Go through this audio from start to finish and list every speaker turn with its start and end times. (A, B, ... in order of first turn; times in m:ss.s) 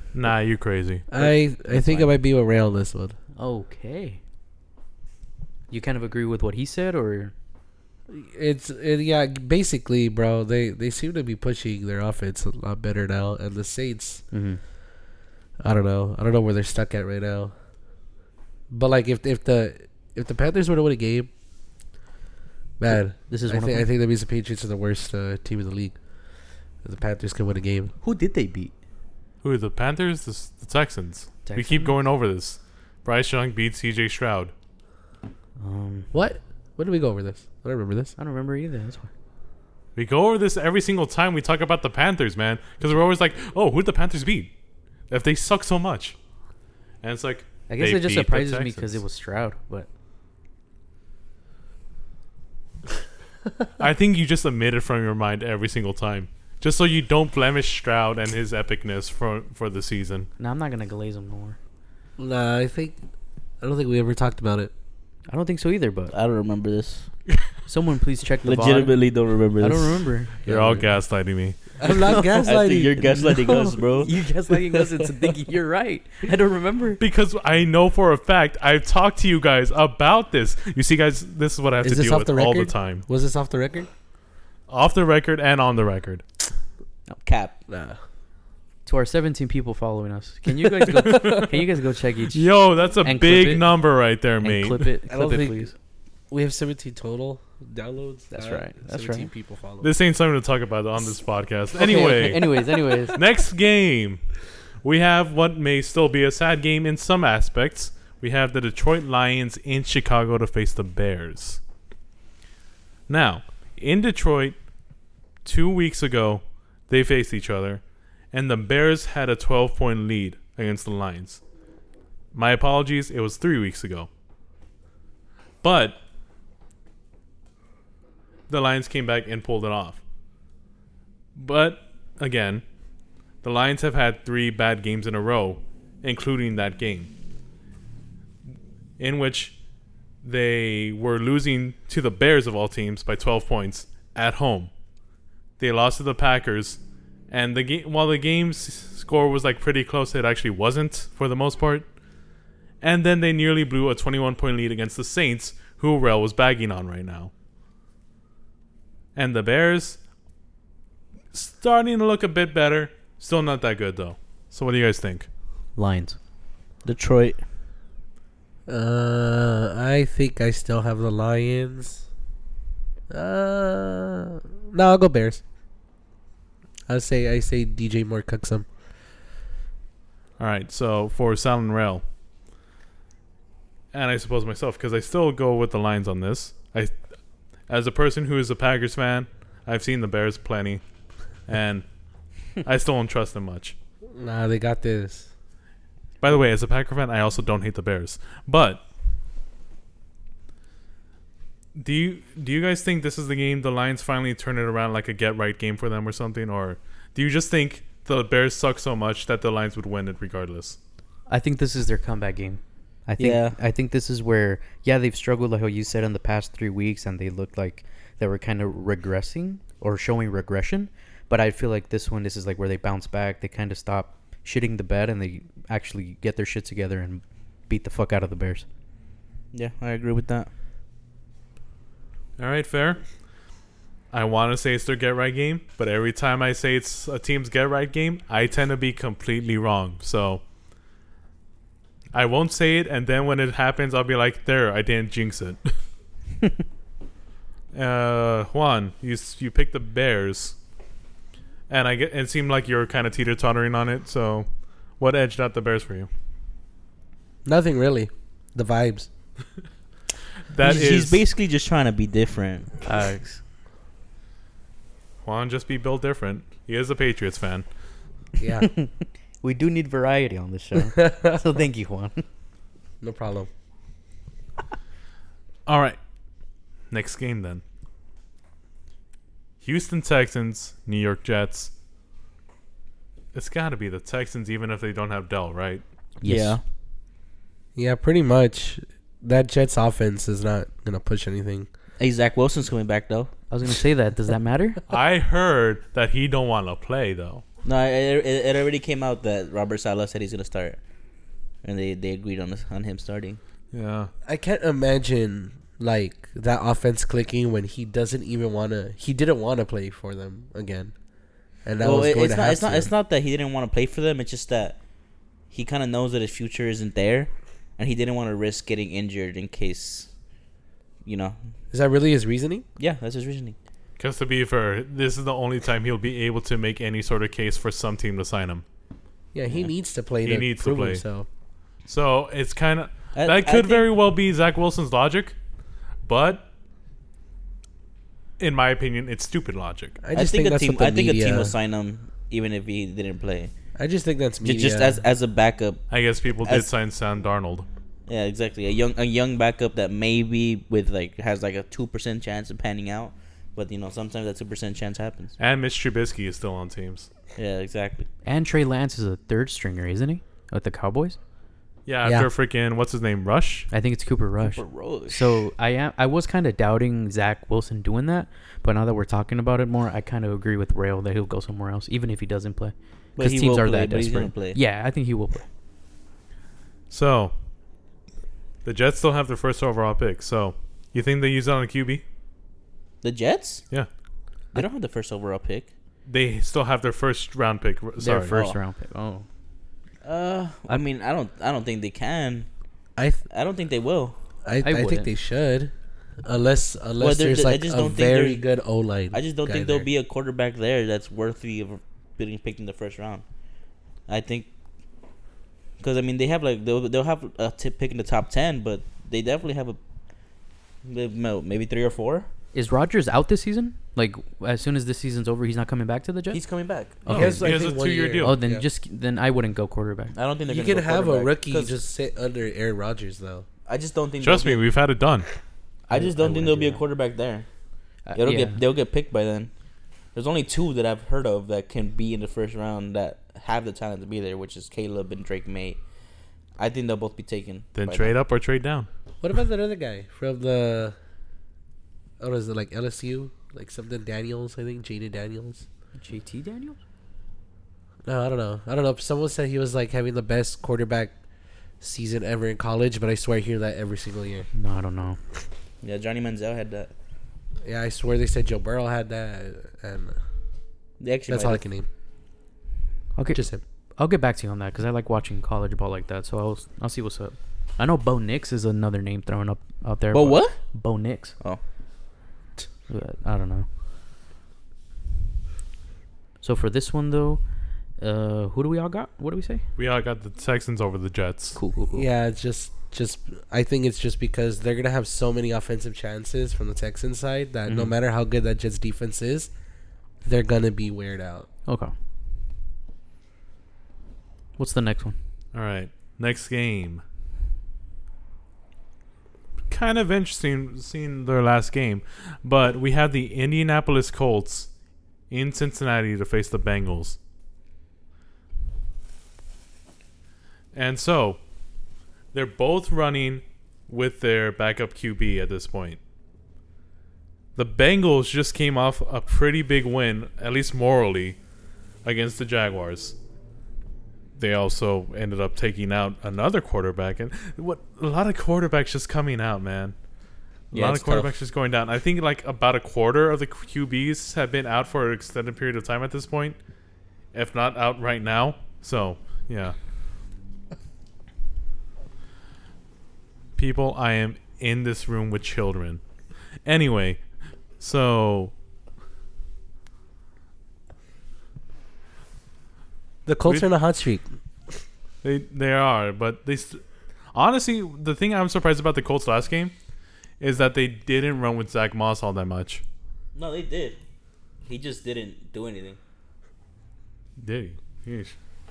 0:00.1-0:01.1 A
0:01.1-0:03.2 B
0:01.2-0:02.1 C
0:03.4-0:04.2 C
0:05.7-0:07.3 C
0:08.1-0:14.2 B
0:14.3-0:14.6 C
0:15.6-0:17.5 B
0:18.7-0:21.3 B
0:22.8-0:26.0 B
0:22.9-0:23.9 C
0:26.8-0:27.9 B
0:28.0-0:28.7 C
0:29.4-0:34.5 A
0:31.4-0:32.0 C
0:35.6-0:36.1 C
0:36.1-0:38.1 B
0:38.2-0:39.1 C
0:40.0-0:44.5 A
0:45.1-0:46.2 A
0:47.0-0:49.0 A
0:47.7-0:49.9 C
0:53.8-1:00.3 A
1:00.4-1:01.6 C
1:02.2-1:03.0 B
1:03.6-1:04.7 B
1:05.3-1:06.1 C
1:06.1-1:07.1 D
1:07.7-1:09.0 C
1:08.4-1:10.1 D
1:09.6-1:10.4 C
1:10.5-1:10.9 B
1:10.5-1:11.8 A
1:11.8-1:13.4 B
1:11.8-1:12.4 C
1:12.4-1:14.1 D
1:13.2-1:17.0 C
1:14.5-1:15.3 B
1:17.0-1:23.0 A
1:21.8-1:23.9 B
1:24.7-1:26.2 A
1:27.2-1:27.6 D
1:27.7-1:28.0 B
1:28.9-1:32.5 C
1:30.9-1:31.5 A
1:32.3-1:34.9 A
1:33.0-1:33.7 C
1:34.4-1:35.7 C
1:35.1-1:35.7 B
1:36.3-1:39.9 B
1:38.3-1:39.3 C
1:39.8-1:44.2 A
1:41.8-1:43.2 C
1:44.8-1:51.6 A
1:53.1-1:54.6 A
1:55.4-2:01.4 A
2:02.3-2:04.1 A
2:05.6-2:06.0 A
2:08.5-2:10.0 A
2:11.4-2:12.6 A
2:13.4-2:17.1 A
2:19.0-2:19.6 A
2:20.2-2:24.7 A
2:25.6-2:31.9 A
2:32.8-2:37.3 A
2:39.1-2:40.0 A
2:41.3-2:45.3 A
2:45.8-2:46.2 C
2:46.8-2:47.4 D
2:48.7-2:52.1 B
2:53.1-2:55.4 B
2:56.9-2:58.7 B
3:00.4-3:02.0 A
3:03.9-3:06.9 A
3:07.7-3:10.8 A
3:11.5-3:11.8 A
3:12.6-3:13.8 A
3:14.1-3:15.3 B
3:16.2-3:18.8 A
3:21.8-3:30.8 A
3:31.3-3:48.7 C
3:33.2-3:33.6 D
3:49.5-3:50.5 D
3:52.4-3:53.0 A
3:54.1-4:00.4 A
4:02.1-4:05.8 A
4:07.7-4:10.6 A
4:11.7-4:14.5 A
4:15.0-4:16.1 A
4:17.4-4:19.1 B
4:20.5-4:21.2 A
4:20.6-4:22.7 D
4:22.8-4:23.4 C
4:25.2-4:27.7 A
4:28.4-4:28.7 B
4:28.6-4:32.2 C
4:30.8-4:31.4 B
4:33.0-4:33.5 B
4:35.7-4:36.0 A
4:36.9-4:37.6 A
4:39.6-4:41.7 A
4:43.3-4:45.8 A
4:46.2-4:46.6 C
4:46.2-4:46.6 D
4:47.8-4:51.7 B
4:52.0-4:53.3 D
4:53.5-4:54.8 C
4:54.9-4:57.4 A
4:57.6-5:00.8 D
5:01.6-5:03.4 D
5:03.7-5:04.1 A
5:04.2-5:10.9 B
5:11.6-5:12.9 B
5:11.8-5:14.8 D
5:15.5-5:20.1 D
5:21.0-5:21.4 D
5:21.7-5:22.7 B
5:22.8-5:23.6 D
5:24.0-5:28.6 A
5:29.3-5:31.3 B
5:30.2-5:31.0 A
5:31.9-5:35.4 A
5:33.1-5:33.9 D
5:36.0-5:36.5 A
5:38.4-5:40.0 A
5:40.0-5:41.5 B
5:40.1-5:43.5 D
5:43.8-5:45.0 B
5:44.4-5:45.8 D
5:45.9-5:47.7 A
5:48.1-5:55.4 D
5:55.4-5:57.1 A
5:57.4-5:58.1 D
5:58.2-6:01.2 C
6:01.9-6:03.7 A
6:02.0-6:02.3 B
6:03.7-6:15.5 C
6:04.4-6:05.3 D
6:13.2-6:14.6 D
6:16.9-6:17.3 A
6:18.6-6:22.0 A
6:23.0-6:23.6 D
6:24.5-6:25.7 D
6:26.1-6:28.4 A
6:28.0-6:29.2 C
6:28.3-6:28.6 D
6:30.0-6:32.5 D
6:33.0-6:33.2 B
6:33.3-6:34.2 D
6:34.4-6:35.7 B
6:34.6-6:35.1 C
6:36.2-6:39.9 B
6:37.0-6:38.4 D
6:39.1-6:43.2 D
6:44.1-6:44.5 D
6:45.8-6:49.8 D
6:50.8-6:52.3 D
6:52.5-6:56.4 C
6:56.3-6:57.1 D
6:57.0-6:57.5 C
6:57.1-6:58.6 B
6:57.1-6:58.4 A
6:58.2-7:00.1 C
7:00.1-7:01.8 D
7:00.5-7:03.4 B
7:03.7-7:04.6 D
7:04.2-7:05.3 A
7:05.9-7:06.8 C
7:05.9-7:07.5 D
7:08.1-7:08.6 C
7:08.2-7:09.5 D
7:10.1-7:15.8 D
7:16.6-7:18.1 D
7:17.8-7:18.9 A
7:19.2-7:21.0 B
7:22.2-7:25.6 B
7:26.0-7:26.8 C
7:28.0-7:31.1 B
7:31.8-7:34.5 B
7:34.5-7:35.2 C
7:35.8-7:36.9 D
7:37.6-7:40.2 B
7:41.0-7:41.6 D
7:41.3-7:41.9 B
7:43.1-7:43.4 C
7:43.3-7:43.6 B
7:44.0-7:51.4 C
7:50.1-7:50.6 D
7:52.9-7:53.7 C
7:56.4-7:57.4 C
7:58.0-7:59.6 C
7:59.8-8:01.6 A
8:01.6-8:02.1 C
8:01.9-8:09.5 B
8:07.7-8:07.9 C
8:10.2-8:11.5 B
8:11.7-8:11.9 C
8:14.6-8:15.2 C
8:15.5-8:17.0 A
8:19.7-8:24.7 A
8:25.3-8:27.2 A
8:30.7-8:31.4 A
8:32.3-8:36.0 A
8:37.6-8:41.4 A
8:42.0-8:43.2 A
8:44.4-8:49.9 A
8:50.7-8:56.6 A
8:50.7-8:51.3 D
8:57.3-8:59.8 A
9:03.6-9:06.0 A
9:06.6-9:07.2 A
9:07.8-9:08.5 A
9:13.3-9:14.3 B
9:15.2-9:16.8 A
9:17.3-9:19.7 A
9:20.4-9:22.8 A
9:23.4-9:24.0 D
9:24.6-9:26.0 D
9:27.4-9:28.4 A